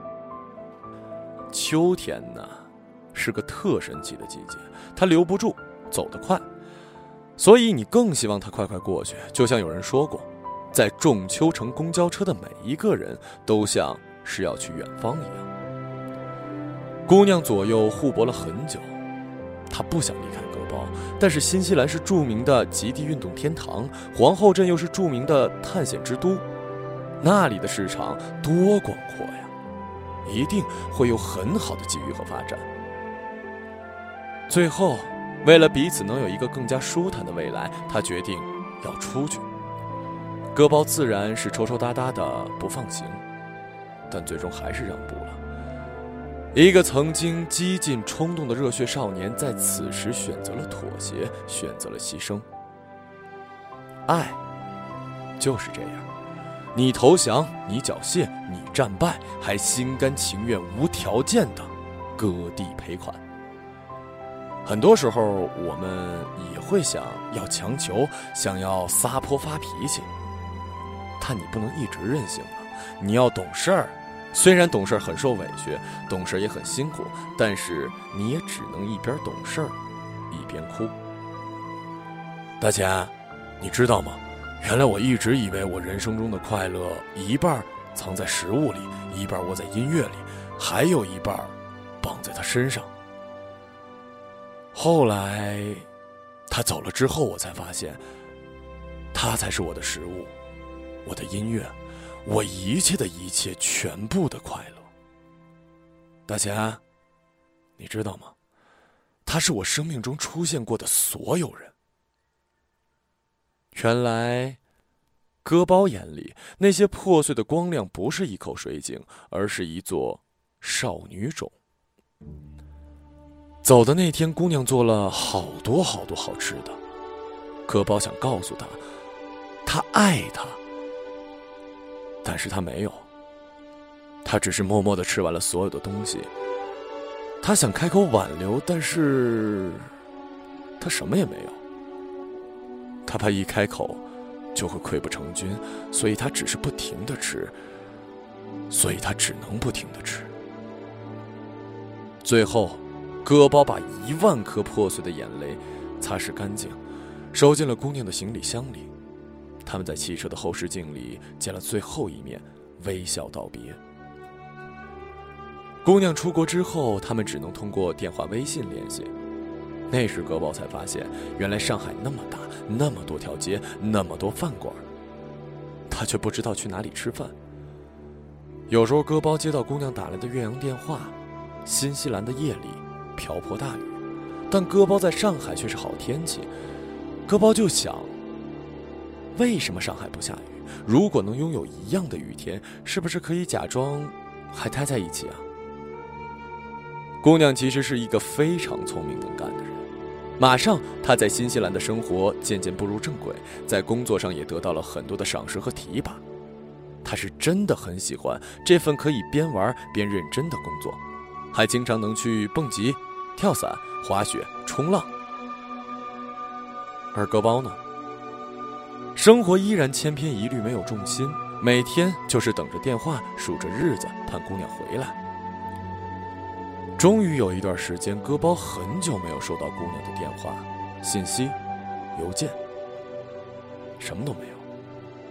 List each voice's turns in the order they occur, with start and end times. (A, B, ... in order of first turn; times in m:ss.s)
0:01.5-0:06.5 A
0:07.4-0:15.5 A
0:17.1-0:19.0 A
0:19.7-0:26.4 A
0:27.2-0:29.5 A
0:30.2-0:32.6 A
0:34.5-0:39.5 A
0:40.5-0:43.2 A
0:44.1-0:45.4 A
0:46.5-0:52.4 A
0:54.1-0:54.4 A
0:55.4-0:56.1 A
0:56.7-1:03.2 A
1:04.6-1:10.1 A
1:11.2-1:19.8 A
1:20.3-1:21.0 A
1:22.6-1:32.9 A
1:34.7-1:35.9 A
1:36.5-1:38.0 A
1:39.1-1:40.3 A
1:41.0-1:44.9 A
1:46.3-1:46.8 A
1:47.8-1:48.4 A
1:49.2-1:51.8 A
1:53.7-1:54.6 A
1:55.4-2:01.6 A
2:03.6-2:06.8 A
2:07.7-2:08.8 A
2:09.6-2:10.6 A
2:12.2-2:13.1 A
2:14.2-2:16.3 A
2:17.4-2:19.9 A
2:20.8-2:21.6 A
2:23.0-2:24.0 A
2:24.6-2:27.6 A
2:28.7-2:30.3 A
2:32.2-2:36.8 A
2:37.3-2:38.9 A
2:39.6-2:43.8 A
2:45.8-2:49.1 A
2:49.9-2:54.9 A
2:55.9-2:57.4 A
2:58.7-3:04.0 A
3:04.5-3:06.5 A
3:07.3-3:08.1 A
3:09.4-3:15.4 A
3:17.2-3:19.8 A
3:20.4-3:26.2 A
3:27.0-3:31.0 A
3:31.5-3:35.1 A
3:37.1-3:37.8 A
3:39.2-3:45.2 A
3:47.0-3:51.6 A
3:52.1-3:52.6 A
3:54.0-3:54.6 A